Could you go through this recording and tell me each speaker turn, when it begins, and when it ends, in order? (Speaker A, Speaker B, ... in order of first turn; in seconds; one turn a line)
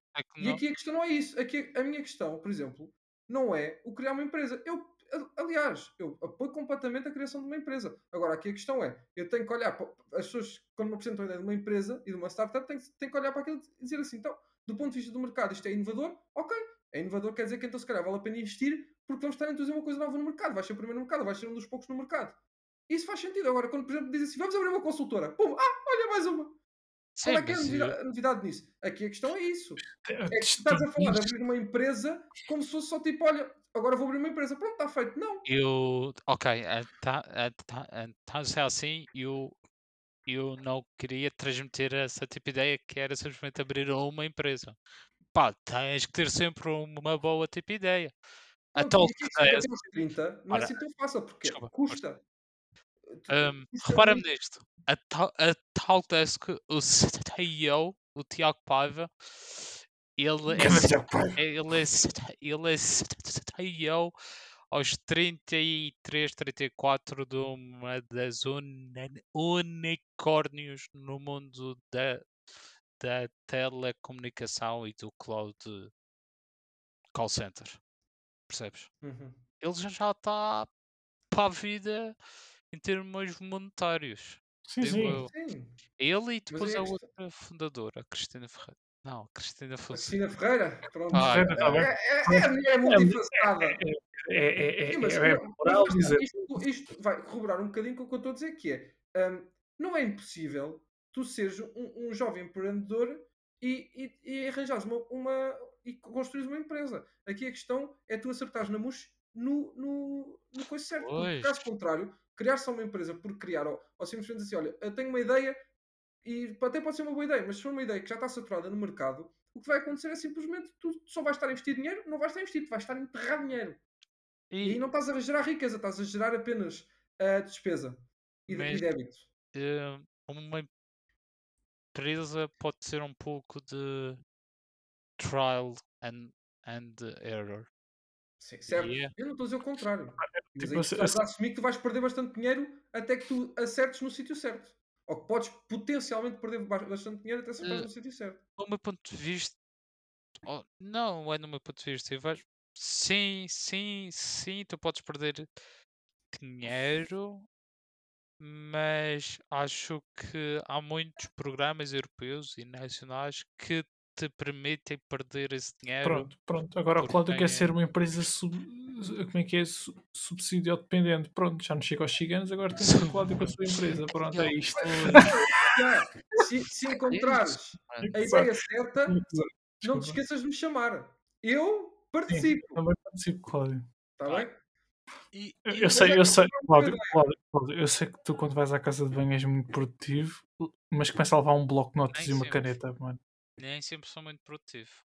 Speaker A: 0.1-0.6
Speaker B: 0.4-26.6
Speaker A: 27.2-28.0
Speaker B: 27.2-35.5
Speaker C: 29.9-31.3
Speaker A: 35.5-39.6
Speaker A: 40.3-44.8
Speaker A: 45.3-48.1
Speaker A: 48.7-49.7
Speaker B: 48.8-52.2
Speaker A: 50.5-50.8
Speaker A: 51.4-52.0
Speaker B: 53.1-54.3
Speaker A: 53.3-64.1
Speaker C: 60.5-61.4
Speaker A: 64.7-72.3
Speaker A: 73.0-75.9
Speaker A: 77.1-77.8
Speaker A: 78.5-78.9
Speaker B: 79.0-79.4
Speaker A: 79.6-80.7
Speaker A: 81.3-82.2
Speaker A: 82.7-85.3
Speaker C: 84.7-85.2
Speaker B: 85.0-85.8
Speaker A: 86.0-90.2
Speaker B: 86.5-87.0
Speaker B: 89.9-93.8
Speaker C: 91.1-96.3
Speaker A: 91.1-91.8
Speaker B: 94.9-115.6
Speaker A: 111.0-111.6
Speaker B: 116.2-123.8
Speaker A: 124.5-124.8
Speaker B: 124.6-129.3
Speaker A: 128.5-128.9
Speaker A: 129.5-130.7
Speaker A: 131.9-134.2
Speaker A: 135.2-137.7
Speaker B: 138.4-148.4
Speaker A: 138.7-139.1
Speaker C: 140.2-141.2
Speaker A: 147.6-147.9
Speaker A: 148.6-149.6
Speaker A: 150.4-155.5
Speaker A: 156.3-157.5
Speaker A: 158.4-166.3
Speaker C: 166.0-175.7
Speaker A: 167.0-167.7
Speaker A: 172.8-173.6
Speaker A: 174.2-175.3
Speaker B: 174.8-179.2
Speaker A: 177.1-178.2
Speaker C: 178.0-178.5
Speaker C: 179.1-180.2
Speaker B: 179.8-182.8
Speaker C: 182.3-183.8
Speaker B: 184.2-184.6
Speaker A: 185.3-186.2
Speaker C: 185.7-193.2
Speaker B: 185.9-187.3
Speaker A: 192.1-192.8
Speaker A: 193.6-195.0